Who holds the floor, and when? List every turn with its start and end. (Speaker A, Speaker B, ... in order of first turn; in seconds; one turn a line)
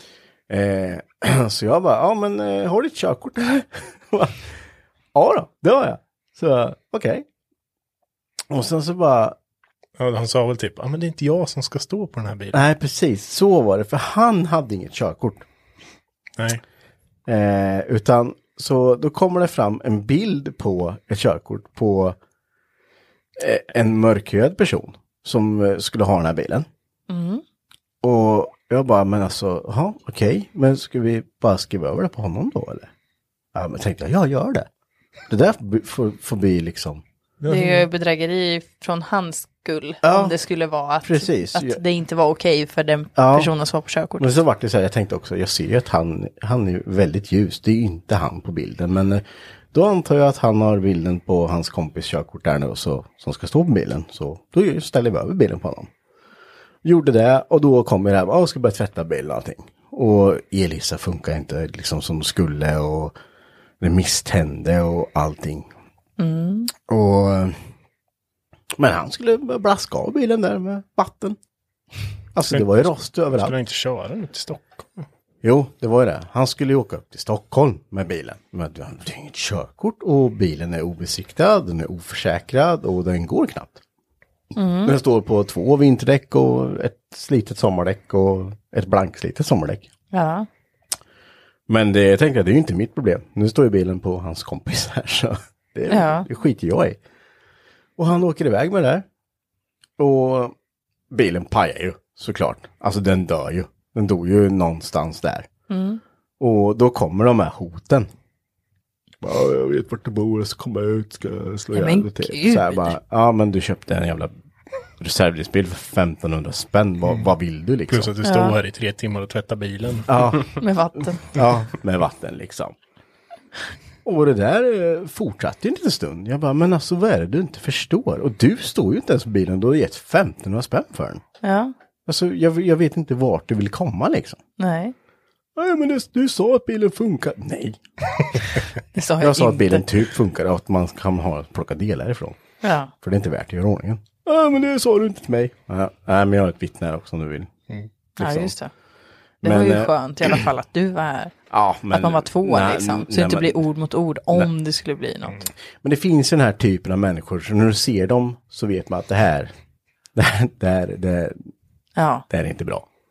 Speaker A: 0.5-4.5
Speaker A: 5.1-7.2
Speaker A: 8.5-9.3
Speaker B: 10.0-12.6
Speaker A: 12.5-15.4
Speaker A: 17.2-22.2
Speaker A: 23.4-26.6
Speaker C: 27.1-27.4
Speaker A: 28.0-32.9
Speaker A: 33.5-34.7
Speaker A: 35.3-37.0
Speaker B: 37.4-37.9
Speaker C: 37.5-44.3
Speaker A: 40.0-40.4
Speaker A: 41.0-41.8
Speaker A: 43.2-43.5
Speaker A: 44.2-55.9
Speaker A: 56.8-63.1
Speaker A: 63.8-65.7
Speaker C: 66.2-66.7
Speaker A: 66.9-67.6
Speaker A: 68.8-71.4
Speaker A: 72.3-73.5
Speaker B: 72.5-75.0
Speaker A: 75.4-83.8
Speaker C: 84.5-85.0
Speaker A: 84.8-89.9
Speaker C: 90.1-90.5
Speaker A: 91.7-97.0
Speaker C: 95.9-96.3
Speaker A: 98.0-99.0
Speaker A: 100.0-100.5
Speaker A: 101.1-105.5
Speaker C: 105.7-106.0
Speaker A: 106.4-108.1
Speaker A: 109.2-114.3
Speaker C: 111.7-113.0
Speaker A: 115.0-118.1
Speaker B: 117.9-120.3
Speaker C: 118.2-118.5
Speaker A: 120.1-120.5
Speaker C: 120.6-121.3
Speaker A: 121.2-122.7
Speaker A: 124.0-131.2
Speaker C: 131.4-131.7
Speaker A: 132.1-134.4
Speaker C: 134.6-134.9
Speaker A: 135.6-138.4
Speaker C: 138.9-139.9
Speaker A: 139.2-142.4
Speaker C: 142.6-142.9
Speaker A: 143.0-147.5
Speaker A: 148.2-148.5
Speaker C: 148.2-148.7
Speaker A: 149.4-150.4
Speaker C: 149.4-151.3
Speaker A: 151.5-153.6
Speaker C: 151.9-155.4
Speaker A: 155.8-159.5
Speaker A: 160.1-161.5
Speaker C: 161.9-162.2
Speaker A: 162.3-162.8